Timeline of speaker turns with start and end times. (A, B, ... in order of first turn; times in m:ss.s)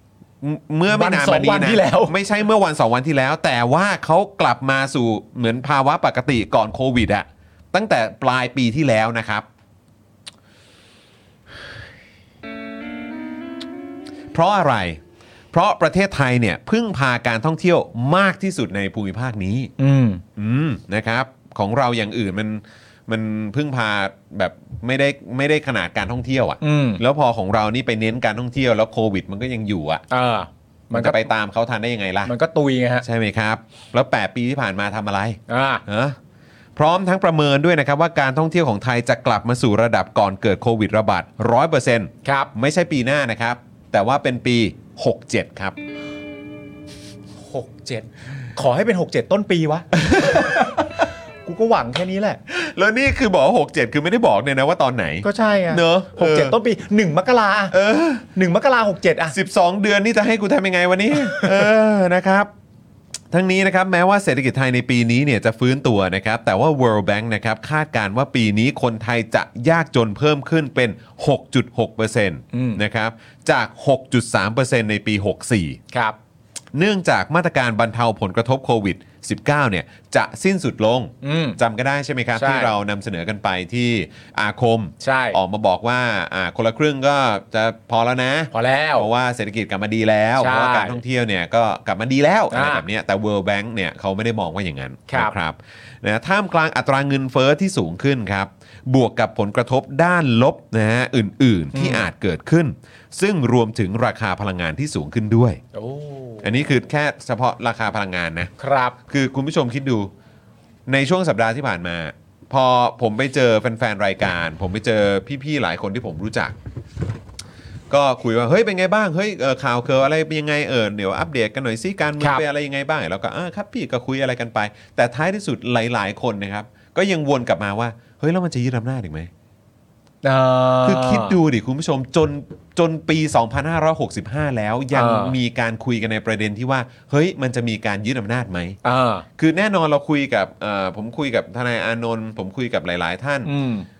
0:00.4-0:09.4 A
0:00.9-0:02.1 B
0:14.3-0:15.0 A
0:15.5-0:19.7 A
0:19.8-0:20.2 B
0:20.4-0:30.0 A
0:26.6-0:27.0 B
0:30.1-0:31.3 B
0:30.9-0:32.3 A
0:32.2-0:33.0 B
0:33.0-0:36.2 A
0:35.5-0:35.8 B
0:36.8-0:45.8 A
0:42.2-0:42.5 B
0:47.4-0:50.9 B
0:50.0-0:50.8 A
0:51.4-0:52.4 B
0:52.5-0:56.6 A
0:55.2-0:57.7 B
0:57.7-0:58.2 A
0:58.3-0:59.4 B
0:59.3-1:02.5 A
1:01.2-1:01.5 B
1:03.3-1:15.8 A
1:12.5-1:12.8 B
1:16.7-1:45.6 A
1:21.2-1:21.6 B
1:22.4-1:22.7 B
1:25.0-1:25.4 B
1:28.5-1:29.1 B
1:30.4-1:31.0 B
1:32.5-1:32.8 B
1:35.1-1:35.3 B
1:41.7-1:42.1 B
1:45.7-1:46.6 B
1:46.4-1:48.5 A
1:48.6-1:49.0 B
1:49.1-1:50.1 A
1:50.9-1:56.5 A
1:57.9-2:09.3 A
2:10.2-2:11.4 B
2:10.8-2:18.8 A
2:14.9-2:15.4 B
2:18.8-2:19.2 B
2:19.4-2:23.5 A
2:23.4-2:23.9 B